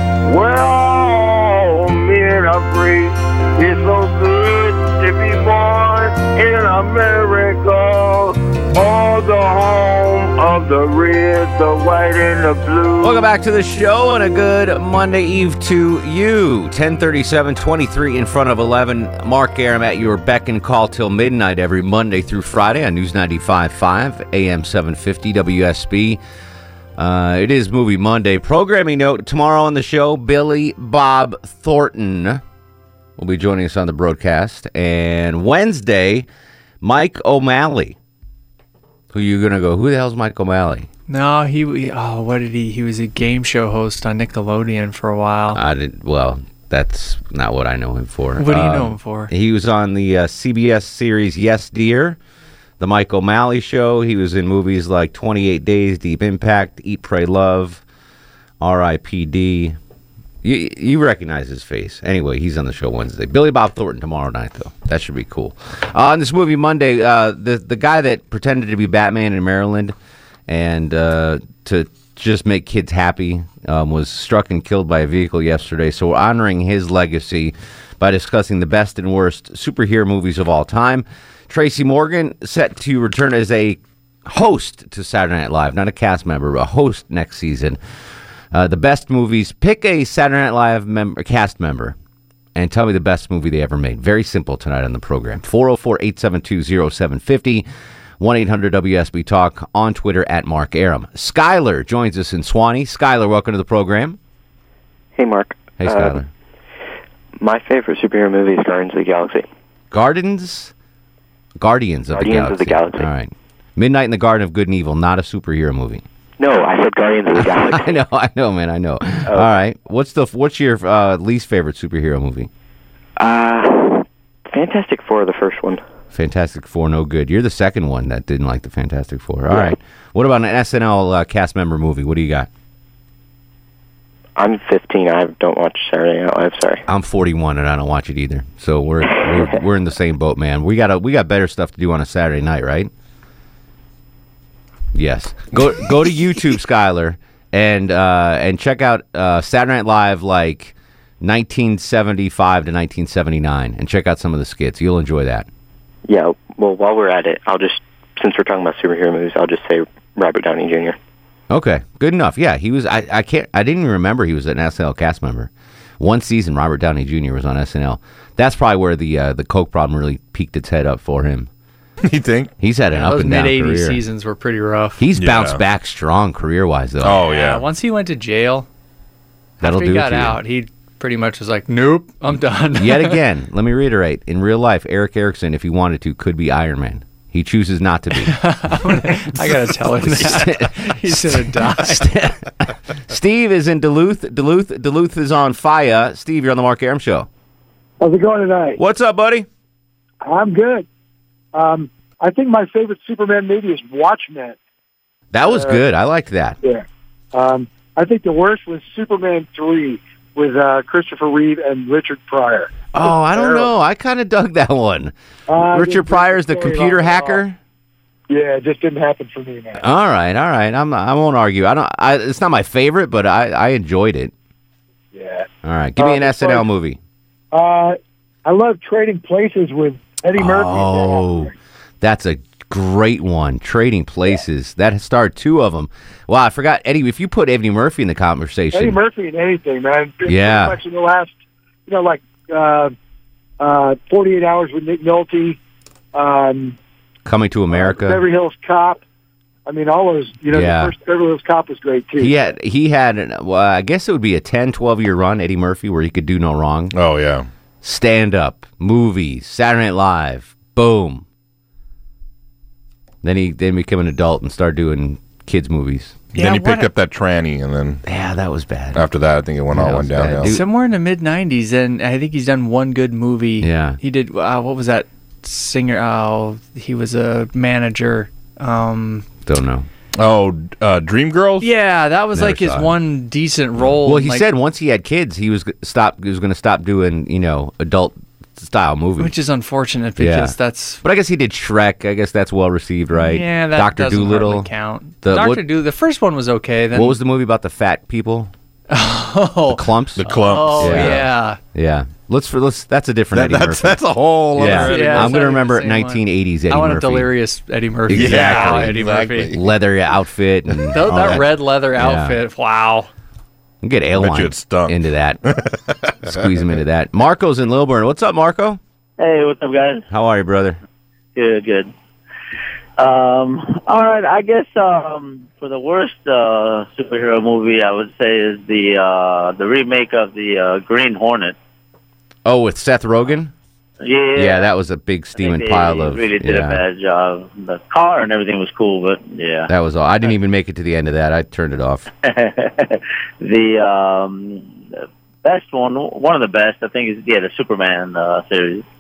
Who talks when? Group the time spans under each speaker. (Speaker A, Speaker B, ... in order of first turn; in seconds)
Speaker A: 0.2-13.2
Speaker B: 13.0-26.2, 27.0-32.4, 33.2-36.3, 36.8-38.0, 39.1-40.9, 45.5-52.2, 52.8-57.8, 58.6-59.8, 60.4-69.9, 70.5-87.8, 88.5-92.0, 92.5-97.7, 98.2-104.2, 105.8-106.3, 109.9-110.7, 111.6-116.0, 117.3-122.5, 126.1-132.5, 136.9-142.9, 144.9-155.5, 161.5-171.5, 172.6-174.0, 175.0-177.2, 179.6-180.4, 182.8-188.4, 190.0-197.3, 198.8-199.5, 205.3-206.6, 212.9-215.1, 215.7-217.6, 219.8-224.3, 225.6-227.0, 230.4-239.0, 240.3-240.8, 247.2-248.2, 250.5-250.9, 252.2-257.0, 257.8-261.2, 263.2-266.2, 268.1-269.1, 269.7-270.6, 273.6-274.0, 279.4-279.9, 282.3-282.9, 284.0-289.3, 290.2-294.7, 295.2-295.6, 296.9-298.5, 299.7-304.0, 304.6-307.3, 308.1-309.0, 309.5-312.4, 313.8-315.4, 316.2-318.8, 320.1-320.8, 332.4-333.5, 334.4-336.8, 339.7-342.1
Speaker C: 41.1-45.6, 48.4-49.3, 172.9-175.1, 177.2-178.7, 179.6-183.2, 188.2-192.2, 266.4-266.9, 270.4-279.3, 281.6-284.5, 289.2-291.0, 293.1-297.2, 298.9-301.6, 304.6-309.6, 310.9-313.1
Speaker D: 105.2-106.2, 107.4-109.5, 112.1-113.1, 116.4-118.0, 119.3-119.6, 123.2-125.8, 129.5-129.8, 134.4-136.8, 156.1-161.0
Speaker E: 172.0-172.5, 175.2-175.6, 177.0-177.6, 256.9-257.5, 266.3-268.0, 268.9-270.6, 280.2-281.7, 300.2-301.3, 303.3-305.2, 308.1-309.6, 311.0-311.4, 314.1-316.3
Speaker F: 198.0-198.8, 200.2-200.9, 201.5-204.6, 205.4-205.8, 206.6-213.7, 215.5-217.4, 218.3-219.8, 225.1-226.7, 227.5-231.5, 238.7-241.3, 241.9-242.9, 243.6-245.6, 246.1-246.8, 247.7-249.0, 249.7-252.4
Speaker G: 319.2-320.1, 321.4-321.9, 323.0-331.6, 334.0-334.7, 335.3-339.7, 342.2-348.8